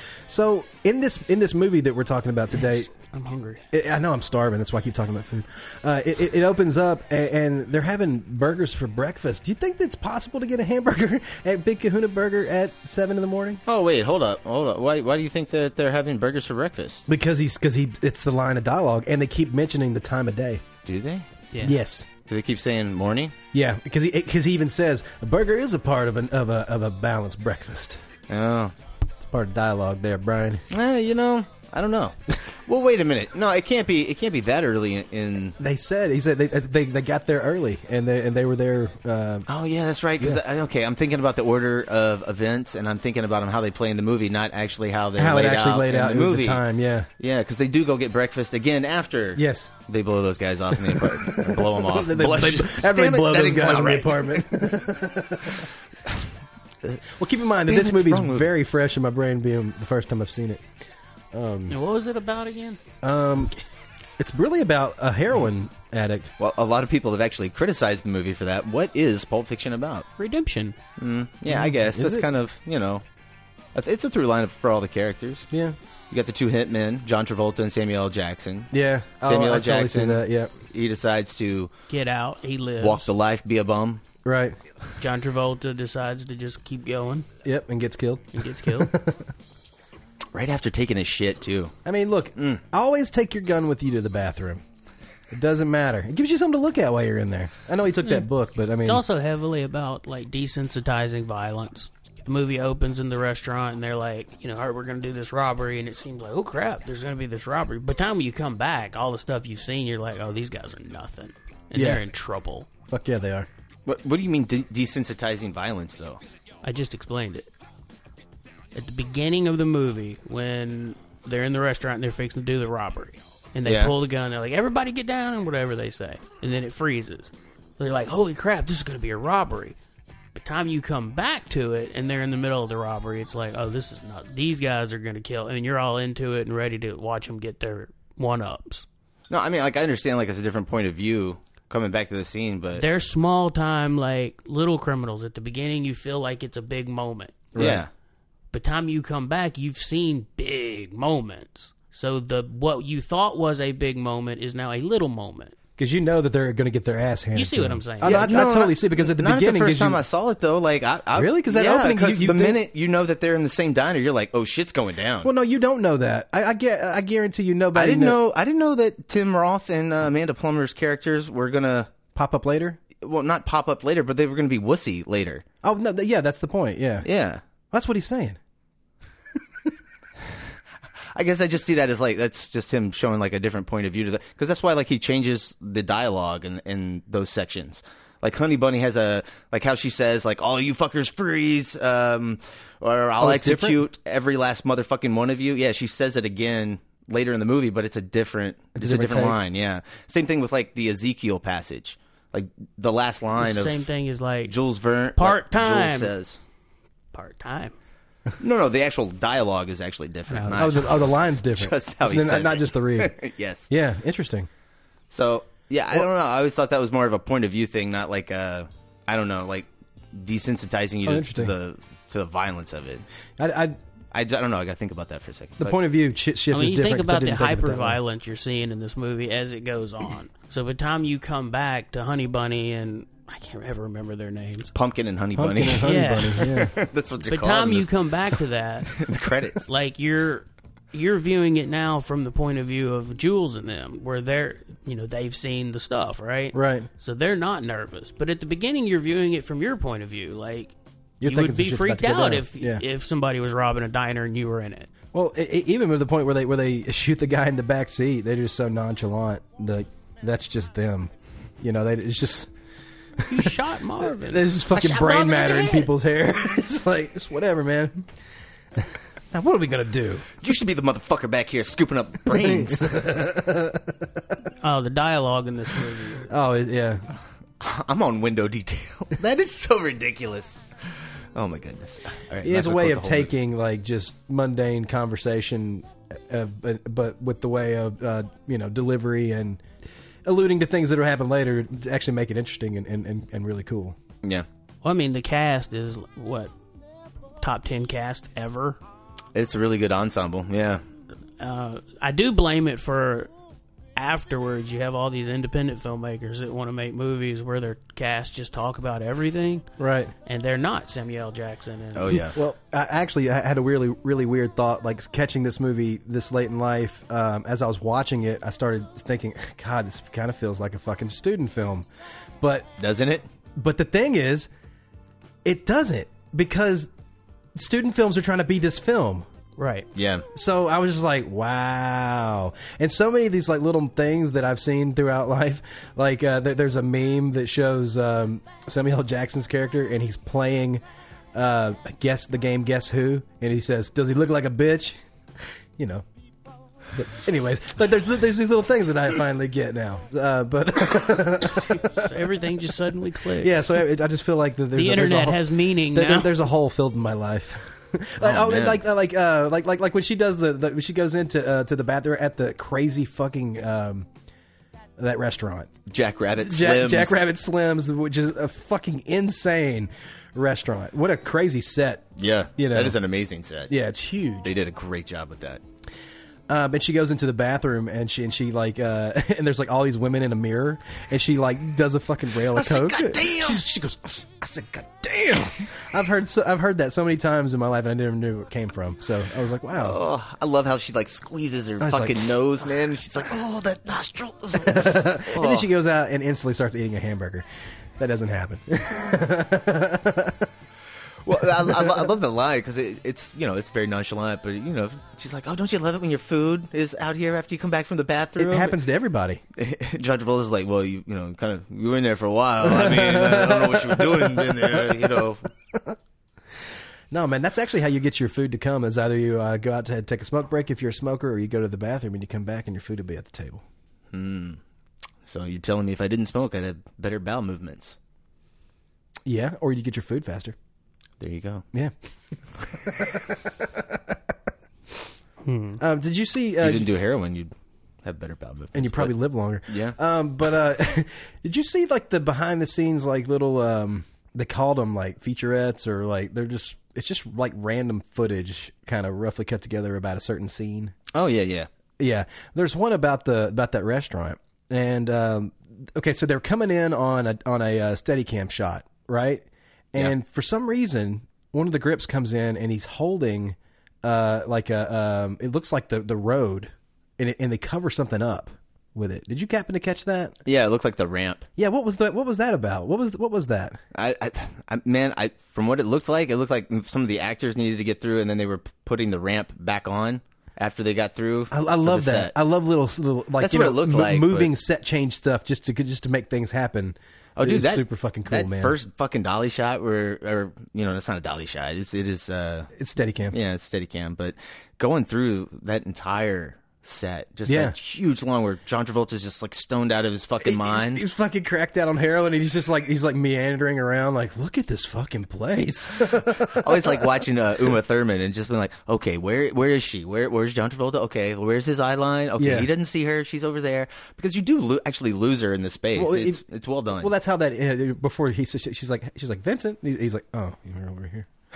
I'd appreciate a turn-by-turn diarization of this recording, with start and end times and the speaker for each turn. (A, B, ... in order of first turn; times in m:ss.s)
0:00.3-0:02.9 A
0:02.6-0:03.6 B
0:03.7-0:13.6 A
0:13.6-0:17.0 C
0:17.1-0:20.6 A
0:20.8-0:21.3 C
0:21.5-0:21.8 B
0:21.6-0:22.1 A
0:22.3-0:23.3 C
0:23.5-0:28.0 A
0:28.3-0:28.7 C
0:29.2-0:30.6 A
0:30.7-0:32.2 C
0:32.7-0:35.6 C
0:35.6-0:39.5 A
0:39.5-0:46.6 C
0:45.2-0:47.1 A
0:47.2-0:54.5 C
0:49.4-0:49.7 A
0:50.7-0:55.6 A
0:57.2-1:00.6 A
0:57.7-0:58.5 C
1:01.3-1:01.8 A
1:01.7-1:02.8 B
1:03.0-1:03.5 A
1:04.2-1:06.3 A
1:06.4-1:10.1 C
1:10.2-1:10.8 B
1:11.0-1:13.0 C
1:11.5-1:12.3 A
1:13.7-1:15.5 C
1:15.5-1:15.8 A
1:16.1-1:18.7 C
1:18.7-1:20.5 A
1:19.2-1:21.7 C
1:21.9-1:23.1 B
1:22.8-1:24.0 C
1:24.2-1:24.6 A
1:25.0-1:27.3 B
1:27.4-1:29.3 A
1:28.3-1:28.9 B
1:30.3-1:31.7 C
1:31.8-1:34.6 A
1:35.3-1:39.0 A
1:38.8-1:52.7 B
1:51.7-1:52.1 A
1:52.9-1:53.5 A
1:53.8-1:56.2 C
1:56.6-1:57.5 B
1:58.7-2:09.8 B
2:03.6-2:03.9 C
2:10.3-2:18.8 B
2:19.3-2:22.8 C
2:22.7-2:27.5 B
2:27.5-2:27.8 A
2:27.6-2:27.9 C
2:28.5-2:35.5 B
2:35.8-2:40.0 A
2:37.3-2:38.3 B
2:38.0-2:45.3 C
2:41.1-2:42.6 A
2:45.2-2:48.2 A
2:47.7-2:51.9 C
2:52.1-2:52.8 A
2:53.0-2:55.4 C
2:55.6-2:57.1 A
2:57.0-2:57.4 C
2:57.7-2:58.4 A
3:01.1-3:23.9 C
3:13.2-3:13.8 A
3:18.7-3:19.4 A
3:23.4-3:24.5 B
3:24.5-3:26.4 C
3:25.2-3:26.1 B
3:27.1-3:27.7 B
3:28.4-3:33.7 C
3:30.3-3:30.9 B
3:30.6-3:33.2 A
3:33.7-3:34.5 A
3:35.1-3:43.0 C
3:41.0-3:41.5 A
3:43.4-3:43.8 A
3:44.1-3:45.8 C
3:45.6-3:48.0 A
3:46.5-3:54.7 B
3:54.7-3:57.9 C
3:55.4-3:56.7 A
3:55.8-3:56.4 B
3:57.3-3:59.0 B
3:58.9-3:59.6 C
3:59.6-4:10.7 B
4:06.5-4:06.9 A
4:11.2-4:12.8 A
4:11.2-4:14.9 B
4:15.1-4:22.5 A
4:23.3-4:24.5 B
4:24.1-4:28.1 A
4:24.7-4:25.9 C
4:28.8-4:30.3 A
4:30.4-4:33.3 C
4:32.4-4:34.0 A
4:34.6-4:36.3 B
4:36.3-4:37.0 A
4:37.6-4:40.6 C
4:41.3-4:43.3 C
4:42.4-4:49.6 A
4:50.2-4:54.0 A
4:54.8-4:56.5 B
4:57.4-4:58.8 B
4:59.3-5:00.8 C
5:01.4-5:03.3 B
5:04.0-5:09.6 B
5:09.8-5:10.1 A
5:10.2-5:12.2 B
5:11.9-5:12.4 C
5:12.3-5:21.8 A
5:22.4-5:22.7 A
5:22.8-5:23.2 C
5:23.6-5:24.5 A
5:25.4-5:26.9 A
5:27.5-5:29.3 A
5:29.6-5:29.9 B
5:30.0-5:30.2 C
5:30.3-5:40.8 A
5:41.3-5:45.0 A
5:45.8-5:46.0 A
5:46.9-5:52.0 A
5:51.6-5:53.8 B
5:53.4-6:04.1 A
5:54.7-5:56.4 B
5:58.2-5:58.8 C
6:05.0-6:05.7 A
6:05.9-6:07.2 C
6:06.4-6:13.0 A
6:12.2-6:13.7 C
6:13.7-6:14.5 A
6:14.4-6:15.6 C
6:16.5-6:30.0 A
6:22.5-6:23.6 C
6:29.7-6:35.7 C
6:31.8-6:32.2 A
6:34.6-6:37.4 A
6:38.0-6:40.5 A
6:41.2-6:48.8 C
6:41.7-6:42.0 A
6:48.4-6:49.4 A
6:49.6-6:55.4 C
6:52.6-6:56.0 A
6:57.1-7:03.6 A
7:04.1-7:04.6 C
7:05.2-7:08.0 C
7:09.2-7:10.6 A
7:11.2-7:11.6 C
7:13.0-7:14.2 A
7:15.4-7:15.8 B
7:15.8-7:16.9 A
7:16.6-7:17.5 C
7:18.0-7:19.2 C
7:18.7-7:30.9 A
7:19.7-7:20.0 C
7:31.1-7:31.7 C
7:32.0-7:50.4 A
7:50.4-7:51.4 C
7:51.6-7:53.8 A
7:53.9-8:02.3 C
8:01.5-8:08.7 A
8:03.4-8:04.5 C
8:07.4-8:12.7 C
8:12.7-8:13.4 A
8:13.3-8:21.0 C
8:17.5-8:17.8 A
8:20.4-8:27.1 A
8:26.6-8:37.1 C
8:32.4-8:32.7 A
8:35.9-8:36.4 A
8:37.0-8:41.3 A